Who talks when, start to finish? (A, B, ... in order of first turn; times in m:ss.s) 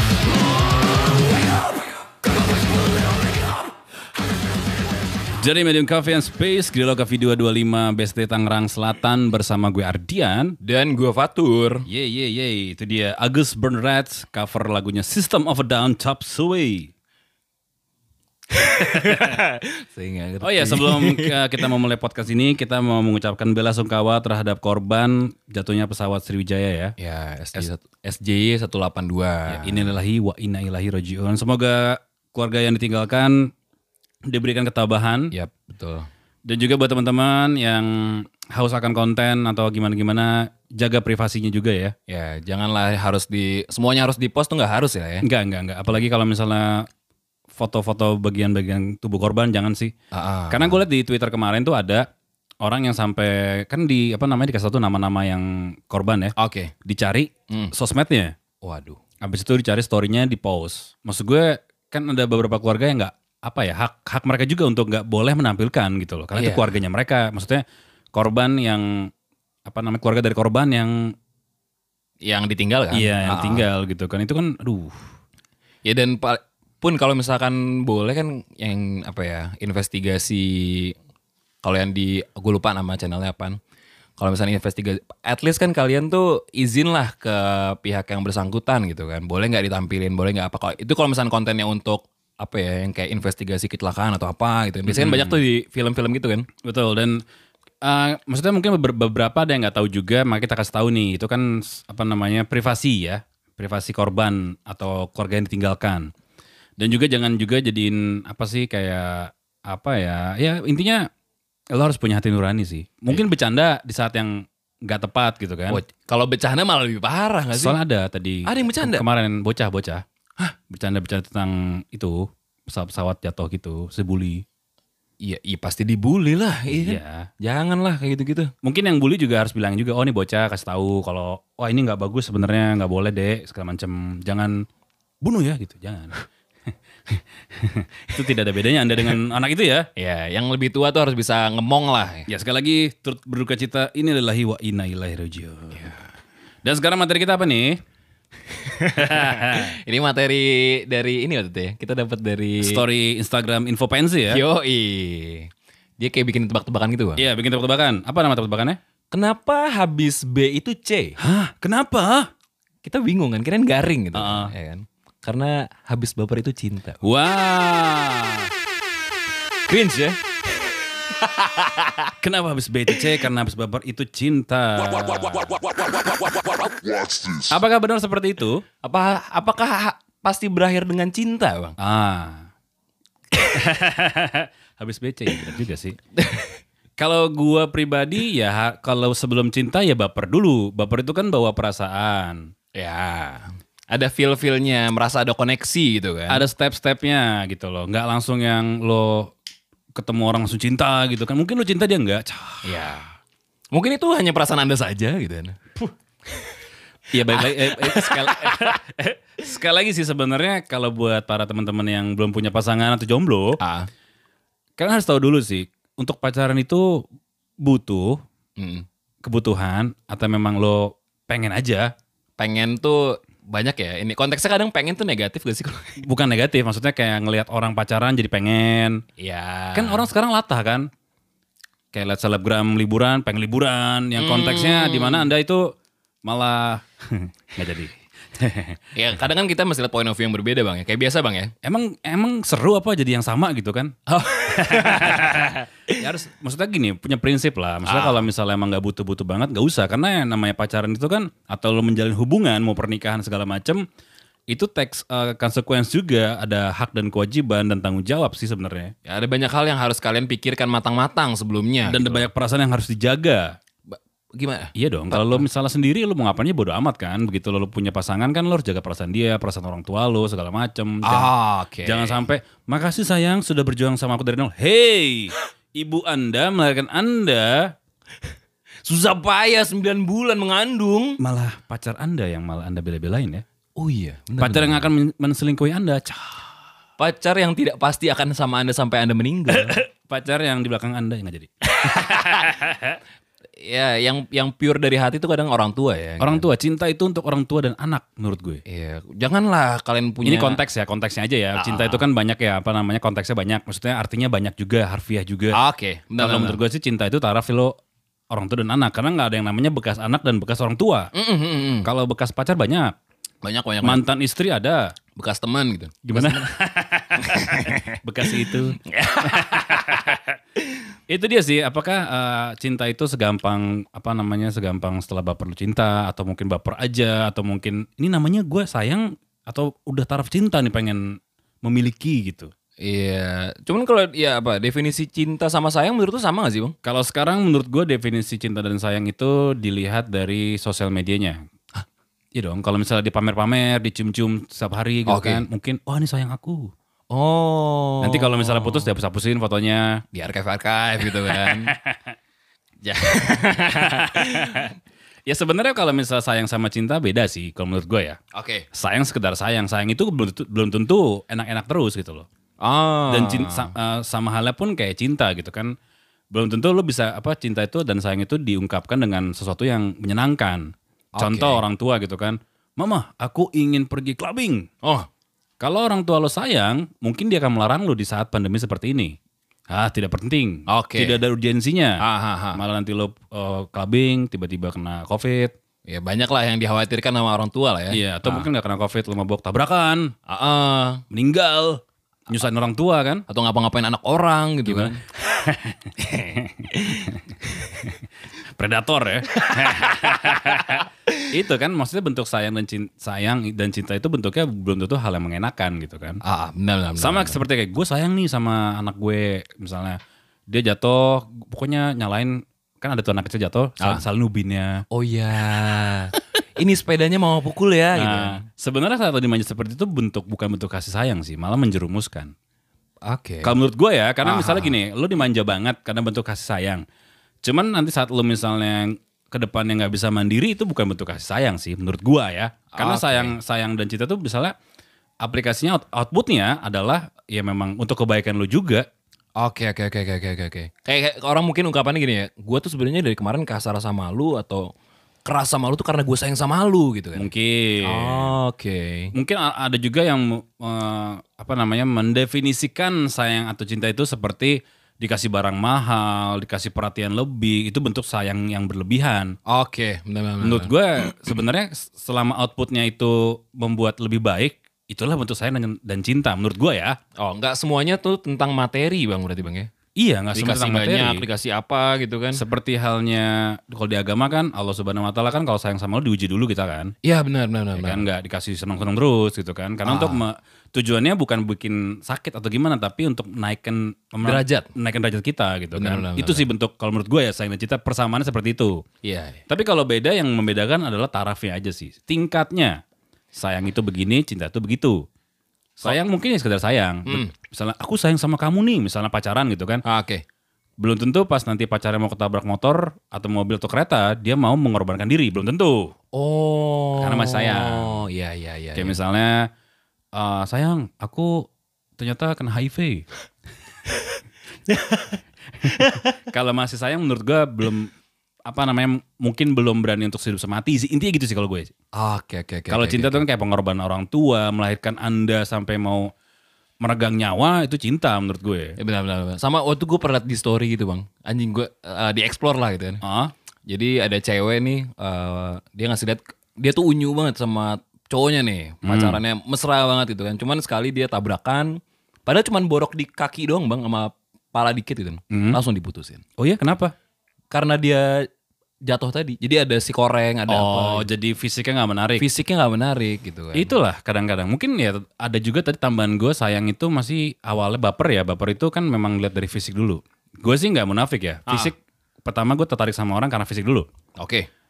0:05.4-0:10.6 A
0:10.6-0:11.8 B
0:11.9-0:16.9 A
0:18.5-0:21.4 B
0:18.8-0:19.4 A
0:20.4-0:27.0 A
0:27.0-0:29.9 B
0:29.5-0:33.5 A
0:34.3-0:35.3 A
0:35.3-0:36.1 B
0:36.5-0:42.0 A
0:42.1-0:45.2 B
0:45.2-0:46.9 A
0:47.6-0:49.9 A
0:50.1-0:50.8 B
0:50.5-0:52.1 A
0:52.6-0:58.4 A
0:56.4-0:56.7 B
0:58.6-0:59.0 B
0:59.2-1:07.6 A
1:06.3-1:06.8 B
1:08.1-1:09.1 A
1:09.7-1:11.1 A
1:12.2-1:13.7 B
1:12.9-1:15.0 A
1:15.8-1:21.0 B
1:21.6-1:23.6 B
1:24.2-1:36.5 B
1:34.9-1:35.4 A
1:36.6-1:37.2 A
1:37.8-1:46.1 A
1:46.8-1:51.1 A
1:51.7-1:55.8 A
1:55.7-1:57.8 B
1:57.5-2:00.0 A
1:58.5-1:59.0 B
2:00.7-2:04.4 A
2:05.2-2:08.5 B
2:06.7-2:07.3 A
2:08.6-2:14.6 A
2:15.2-2:16.2 A
2:17.1-2:19.9 A
2:20.0-2:22.3 B
2:22.3-2:26.0 A
2:26.6-2:27.8 A
2:28.5-2:32.8 B
2:29.0-2:29.8 A
2:32.6-2:34.4 A
2:34.3-2:37.2 B
2:37.2-2:38.8 A
2:39.1-2:41.2 B
2:41.2-2:42.3 A
2:42.8-2:47.0 B
2:44.1-2:44.5 A
2:47.0-2:48.5 A
2:49.7-2:52.1 B
2:52.2-2:55.6 A
2:55.2-2:57.6 B
2:57.5-2:58.6 A
2:58.8-3:01.8 B
3:01.8-3:02.5 A
3:03.4-3:06.0 A
3:06.2-3:06.6 B
3:07.0-3:12.5 A
3:12.8-3:16.4 B
3:16.3-3:19.3 A
3:20.0-3:22.7 A
3:22.6-3:23.1 B
3:23.7-3:25.6 B
3:26.3-3:26.6 B
3:27.1-3:33.6 A
3:27.2-3:28.8 B
3:33.6-3:33.9 B
3:34.8-3:37.0 A
3:37.6-3:38.2 A
3:38.6-3:38.9 B
3:39.2-3:41.9 A
3:42.4-3:46.0 B
3:46.0-3:49.0 A
3:49.2-3:50.1 B
3:49.8-3:50.9 A
3:51.9-3:55.7 A
3:54.2-3:55.3 B
3:56.2-3:58.8 A
3:59.0-4:01.5 B
4:01.6-4:13.8 A
4:04.1-4:06.0 B
4:07.8-4:08.3 B
4:14.5-4:18.9 A
4:19.1-4:22.3 B
4:21.9-4:23.6 A
4:23.9-4:25.4 B
4:24.8-4:31.3 A
4:31.1-4:32.2 B
4:31.8-4:37.7 A
4:38.8-4:41.2 B
4:41.2-4:43.4 A
4:43.8-4:44.9 B
4:44.4-4:46.4 A
4:47.0-4:49.8 B
4:49.5-4:53.0 A
4:51.8-4:52.5 B
4:53.6-4:56.4 B
4:56.2-4:58.6 A
4:58.7-5:00.6 B
5:00.2-5:05.6 A
5:01.6-5:02.0 B
5:05.5-5:06.6 B
5:06.2-5:07.8 A
5:08.3-5:11.1 A
5:11.1-5:11.9 B
5:11.8-5:12.9 A
5:13.4-5:14.0 B
5:13.8-5:14.9 A
5:15.2-5:16.5 B
5:16.1-5:20.4 A
5:17.2-5:20.1 B
5:21.1-5:32.5 A
5:32.8-5:36.7 B
5:36.8-5:41.4 A
5:42.4-5:46.7 A
5:45.1-5:45.4 B
5:47.1-5:48.9 B
5:48.0-5:50.0 A
5:50.1-5:51.7 B
5:51.1-5:52.1 A
5:52.8-5:54.7 B
5:53.8-5:54.7 A
5:55.3-5:58.2 A
5:58.3-5:58.7 B
5:58.7-6:02.3 A
6:02.6-6:03.7 B
6:03.1-6:05.7 A
6:06.3-6:14.7 A
6:11.2-6:11.6 B
6:15.6-6:19.2 A
6:19.7-6:22.0 A
6:20.7-6:21.2 B
6:22.0-6:22.6 B
6:22.5-6:25.5 A
6:25.9-6:28.5 B
6:27.9-6:30.1 A
6:30.3-6:31.0 B
6:31.1-6:33.2 A
6:33.3-6:35.0 B
6:34.7-6:37.2 A
6:36.0-6:37.8 B
6:38.6-6:46.2 A
6:39.4-6:41.2 B
6:46.2-6:47.4 B
6:47.0-6:54.8 A
6:54.9-6:58.4 B
6:57.9-7:02.3 A
7:03.0-7:03.6 B
7:03.4-7:06.8 A
7:04.2-7:04.8 B
7:07.4-7:14.5 A
7:12.7-7:13.4 B
7:15.2-7:18.9 A
7:19.4-7:24.7 B
7:25.2-7:27.3 B
7:27.2-7:28.4 A
7:27.8-7:29.1 B
7:29.1-7:39.4 A
7:39.5-7:40.7 B
7:40.4-7:47.0 A
7:47.2-7:49.7 B
7:50.0-7:51.2 A
7:50.3-7:52.4 B
7:52.3-7:56.9 A
7:57.0-7:58.0 B
7:57.8-8:08.8 A
7:59.8-8:00.2 B
8:04.2-8:04.7 B
8:05.8-8:06.5 B
8:09.0-8:09.4 B
8:09.5-8:12.8 A
8:13.4-8:15.0 A
8:15.8-8:19.8 A
8:17.1-8:17.3 B
8:19.8-8:20.2 B
8:20.8-8:25.9 A
8:26.1-8:29.0 B
8:27.0-8:28.0 A
8:28.8-8:29.5 A
8:30.2-8:33.0 A
8:34.7-8:35.2 B
8:35.6-8:37.9 A
8:35.8-8:36.0 B
8:38.5-8:41.7 A
8:41.9-8:43.2 B
8:42.7-8:46.1 A
8:46.8-8:48.8 A
8:48.8-8:53.0 B
8:53.0-8:53.3 A
8:53.7-9:06.2 B
8:58.8-8:59.2 A
9:05.3-9:05.6 A
9:06.4-9:06.9 A
9:07.5-9:08.3 B
9:08.9-9:11.1 B
9:10.5-9:12.3 A
9:12.2-9:13.7 B
9:13.5-9:23.9 A
9:21.5-9:21.7 B
9:24.2-9:24.5 B